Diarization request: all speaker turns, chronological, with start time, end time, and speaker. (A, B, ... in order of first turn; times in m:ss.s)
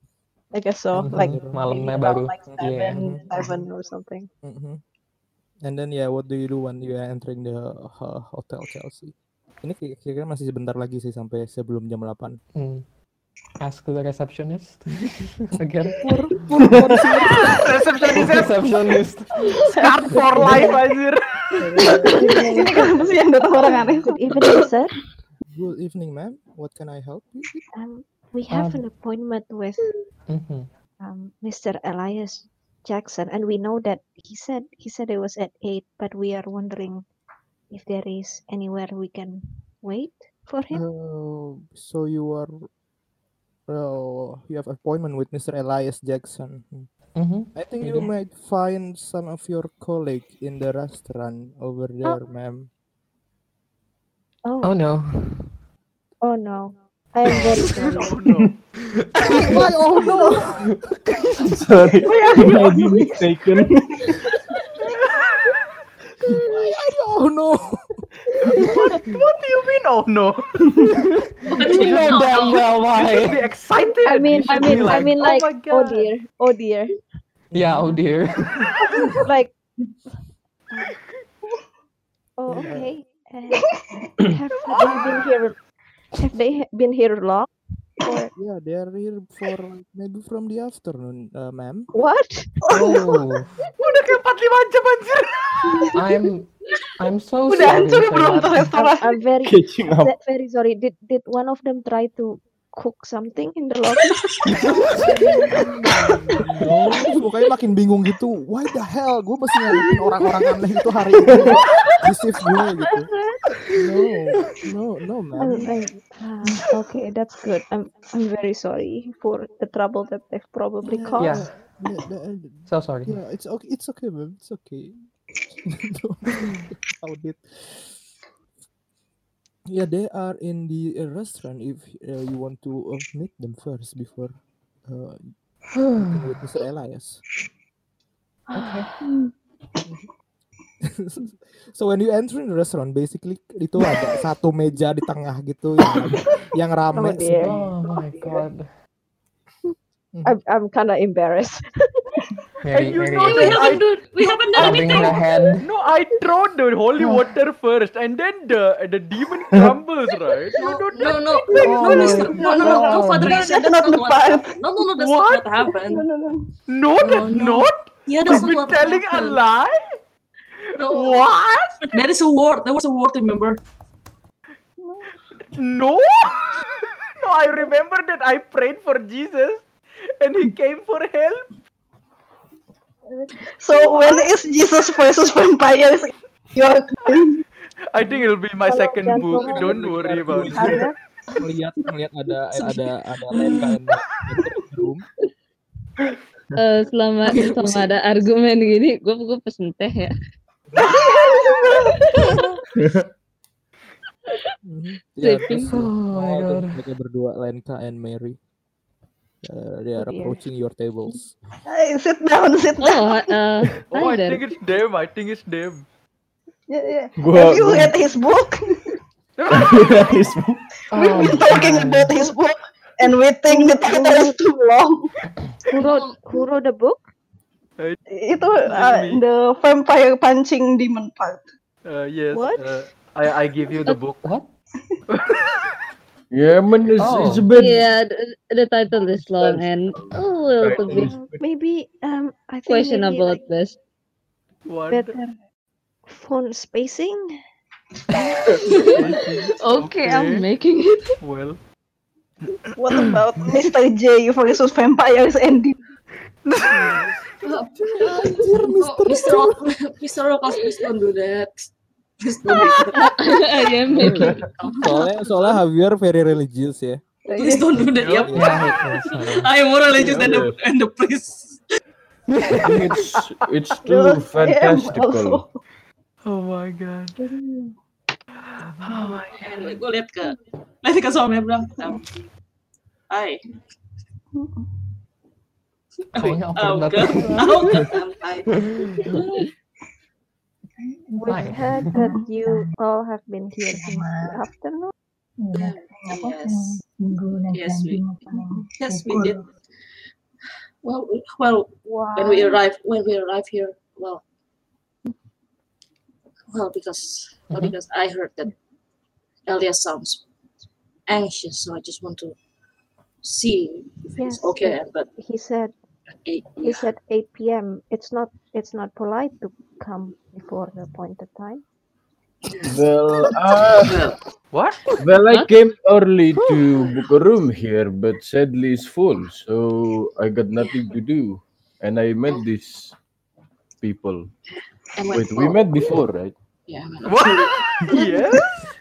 0:00.5-0:04.3 A
0:00.9-0:03.6 B
0:01.0-0:01.8 C
0:02.5-0:03.2 C
0:04.4-0:04.8 C
0:05.6-0:12.4 C
0:12.5-0:12.9 B
0:13.6-0:17.6 B
0:16.0-0:17.6 C
0:17.2-0:19.0 D
0:18.1-0:20.5 B
0:19.6-0:22.1 D
0:20.3-0:20.7 C
0:21.6-0:22.6 C
0:21.8-0:24.7 E
0:22.0-0:23.0 A
0:24.1-0:25.0 A
0:25.5-0:27.6 C
0:27.7-0:29.9 A
0:28.5-0:28.8 B
0:30.3-0:30.7 B
0:31.0-0:37.0 A
0:37.7-0:40.8 A
0:40.7-0:42.7 C
0:43.7-0:46.9 C
0:47.2-0:48.1 B
0:47.5-0:52.7 C
0:54.4-0:54.7 A
0:54.6-0:55.6 B
0:56.2-0:58.2 A
0:57.3-0:58.5 B
0:57.3-0:58.6 D
0:59.0-0:59.6 B
0:59.3-1:00.6 C
1:00.0-1:00.4 E
1:00.0-1:00.4 A
1:00.8-1:01.5 B
1:01.4-1:04.2 F
1:02.0-1:03.1 E
1:02.1-1:03.0 A
1:05.1-1:05.6 D
1:06.4-1:07.8 C
1:08.4-1:08.7 C
1:08.7-1:10.6 D
1:10.8-1:13.5 B
1:11.5-1:12.7 G
1:11.8-1:12.1 D
1:12.9-1:16.1 D
1:14.0-1:16.9 A
1:14.6-1:15.4 C
1:17.5-1:18.0 C
1:17.5-1:18.8 B
1:19.0-1:19.5 A
1:22.4-1:25.6 A
1:22.5-1:22.8 C
1:22.6-1:22.9 D
1:24.7-1:25.4 D
1:26.2-1:27.5 A
1:28.0-1:28.3 A
1:28.4-1:31.9 C
1:31.9-1:32.5 A
1:32.6-1:33.2 E
1:32.7-1:33.6 B
1:33.6-1:36.0 D
1:35.9-1:38.7 B
1:37.4-1:39.2 E
1:38.7-1:44.2 A
1:39.4-1:40.1 F
1:44.4-1:45.2 B
1:46.0-1:53.1 C
1:53.7-1:55.7 C
1:55.4-2:01.5 A
2:00.8-2:05.1 C
2:01.2-2:01.5 B
2:02.7-2:03.2 B
2:05.7-2:08.0 C
2:09.7-2:14.3 C
2:14.9-2:15.3 C
2:15.8-2:16.3 B
2:16.0-2:17.2 C
2:18.6-2:18.9 C
2:18.6-2:18.9 B
2:20.8-2:27.6 C
2:26.9-2:28.5 A
2:27.4-2:28.7 B
2:30.2-2:32.1 A
2:32.6-2:33.8 B
2:32.7-2:34.0 D
2:33.2-2:35.3 G
2:34.6-2:35.6 B
2:34.6-2:35.1 D
2:35.6-2:43.0 D
2:40.6-2:46.0 G
2:41.6-2:44.6 E
2:41.6-2:42.8 B
2:44.9-2:45.5 D
2:45.6-2:46.5 E
2:46.7-2:50.0 D
2:47.0-2:49.4 G
2:50.7-2:52.0 D
2:50.8-2:51.3 G
2:51.9-2:53.6 G
2:55.5-2:59.7 D
3:00.2-3:01.5 D
3:03.1-3:07.4 E
3:07.9-3:10.7 D
3:08.6-3:10.9 A
3:09.2-3:10.8 C
3:10.5-3:10.9 E
3:11.4-3:15.0 C
3:16.6-3:20.1 H
3:17.3-3:17.9 G
3:20.7-3:21.0 C
3:20.8-3:22.0 E
3:22.7-3:23.0 F
3:24.6-3:28.4 C
3:25.2-3:25.8 H
3:25.6-3:26.8 B
3:29.4-3:31.3 C
3:30.0-3:30.4 A
3:31.7-3:33.2 E
3:32.8-3:34.5 H
3:33.9-3:35.9 D
3:36.7-3:38.8 E
3:37.2-3:38.0 F
3:39.4-3:40.2 D
3:39.5-3:40.6 F
3:40.9-3:42.2 B
3:40.9-3:45.1 E
3:43.5-3:44.4 A
3:45.7-3:47.0 A
3:45.7-3:46.2 G
3:48.1-3:51.4 E
3:48.6-3:49.2 D
3:51.8-3:54.3 D
3:52.3-3:52.6 A
3:54.2-3:54.5 B
3:55.1-3:55.5 D
3:56.3-3:57.9 F
3:57.0-3:57.5 B
3:57.5-4:01.1 H
3:59.0-4:01.4 F
4:00.8-4:03.4 A
4:02.7-4:03.8 H
4:04.7-4:05.2 D
4:04.9-4:05.3 A
4:06.1-4:07.4 A
4:08.7-4:10.5 D
4:08.8-4:11.2 H
4:11.2-4:11.6 D
4:12.4-4:13.1 D
4:12.8-4:15.8 E
4:16.4-4:17.2 D
4:16.7-4:17.2 C
4:17.4-4:21.7 G
4:18.2-4:19.7 C
4:22.2-4:23.2 G
4:22.5-4:24.5 H
4:24.0-4:27.0 C
4:24.0-4:25.5 G
4:24.0-4:24.4 F
4:27.3-4:27.8 E
4:27.4-4:31.6 G
4:28.0-4:28.4 D
4:28.2-4:28.5 C
4:28.3-4:29.5 B
4:29.9-4:30.6 F
4:32.3-4:33.0 B
4:32.6-4:35.4 F
4:33.7-4:35.5 E
4:36.2-4:37.2 D
4:37.2-4:37.7 E
4:38.7-4:39.8 D
4:39.3-4:42.0 G
4:43.1-4:43.4 G
4:46.1-4:47.9 B
4:46.1-4:49.4 G
4:48.5-4:49.0 B
4:51.1-4:54.9 A
4:51.3-4:52.0 B
4:52.0-4:52.3 E
4:53.9-4:54.3 E
4:55.5-4:56.8 G
4:55.6-4:59.3 E
4:57.5-4:59.5 G
5:00.8-5:04.2 G
5:01.9-5:02.6 E
5:06.5-5:08.5 G
5:09.5-5:10.2 G
5:11.1-5:12.4 G
5:13.2-5:15.1 G
5:14.2-5:15.7 A
5:16.1-5:16.9 G
5:16.6-5:21.6 A
5:22.6-5:24.0 F
5:23.8-5:24.2 G
5:24.5-5:24.9 D
5:25.0-5:33.0 F
5:25.2-5:25.5 H
5:33.8-5:34.3 F
5:34.9-5:36.0 G
5:35.1-5:36.3 F
5:36.7-5:37.9 G
5:37.0-5:38.7 D